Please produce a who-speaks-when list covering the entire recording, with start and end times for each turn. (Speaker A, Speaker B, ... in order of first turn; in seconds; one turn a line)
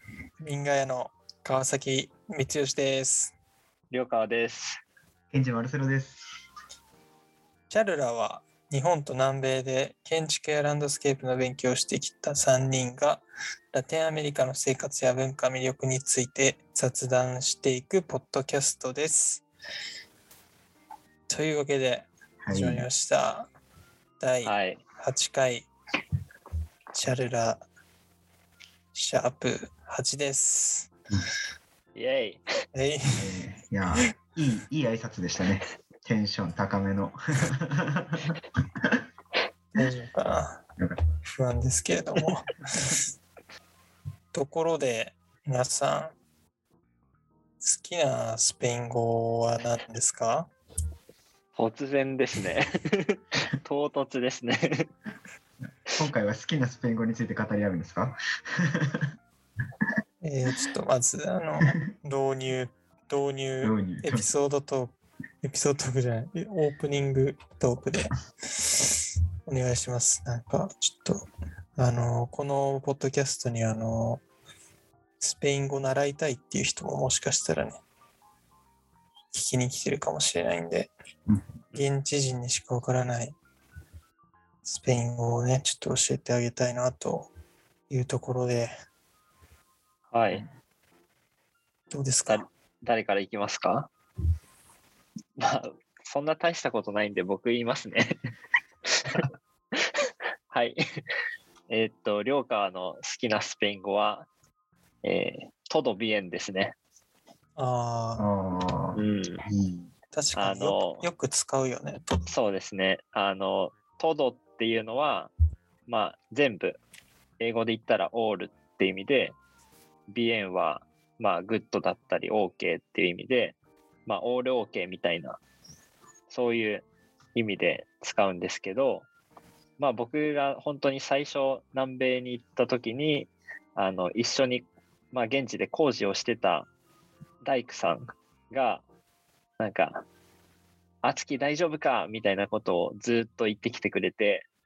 Speaker A: 0.4-3.3
Speaker B: 3.9-4.8
Speaker C: 5.3-6.3
Speaker A: 7.7-19.4
Speaker A: 21.3-23.5
Speaker C: 22.4-22.9
Speaker A: 24.2-25.7
Speaker B: 24.4-24.8
Speaker A: 26.9-27.6
Speaker A: 28.9-30.9
Speaker B: 31.9-32.4
Speaker A: 32.7-33.2
Speaker C: 33.2-39.0
Speaker A: 39.7-40.6
Speaker C: 40.8-41.0
Speaker A: 41.3-42.9
Speaker A: 44.3-46.1
Speaker A: 47.6-50.5
Speaker B: 51.5-54.9
Speaker C: 55.6-59.1
Speaker A: 60.2-74.2
Speaker C: 63.6-64.3
Speaker A: 75.2-77.8
Speaker A: 79.3-80.9
Speaker C: 81.3-81.6
Speaker A: 81.7-83.3
Speaker A: 84.6-87.3
Speaker A: 87.9-88.7
Speaker B: 90.1-90.4
Speaker A: 91.9-92.4
Speaker B: 92.3-93.9
Speaker B: 95.4-98.1
Speaker B: 98.9-99.2
Speaker B: 99.8-100.8
Speaker B: 101.7-104.3
Speaker B: 105.0-106.8
Speaker A: 107.6-108.2
Speaker C: 108.2-109.9
Speaker B: 108.9-109.4
Speaker A: 110.1-112.2
Speaker B: 110.3-111.0
Speaker B: 112.3-115.3
Speaker B: 115.9-116.8
Speaker B: 117.4-119.3
Speaker B: 120.1-125.4
Speaker B: 126.3-129.1
Speaker B: 129.8-136.7
Speaker B: 137.4-138.8
Speaker B: 139.6-140.1
Speaker B: 141.0-144.5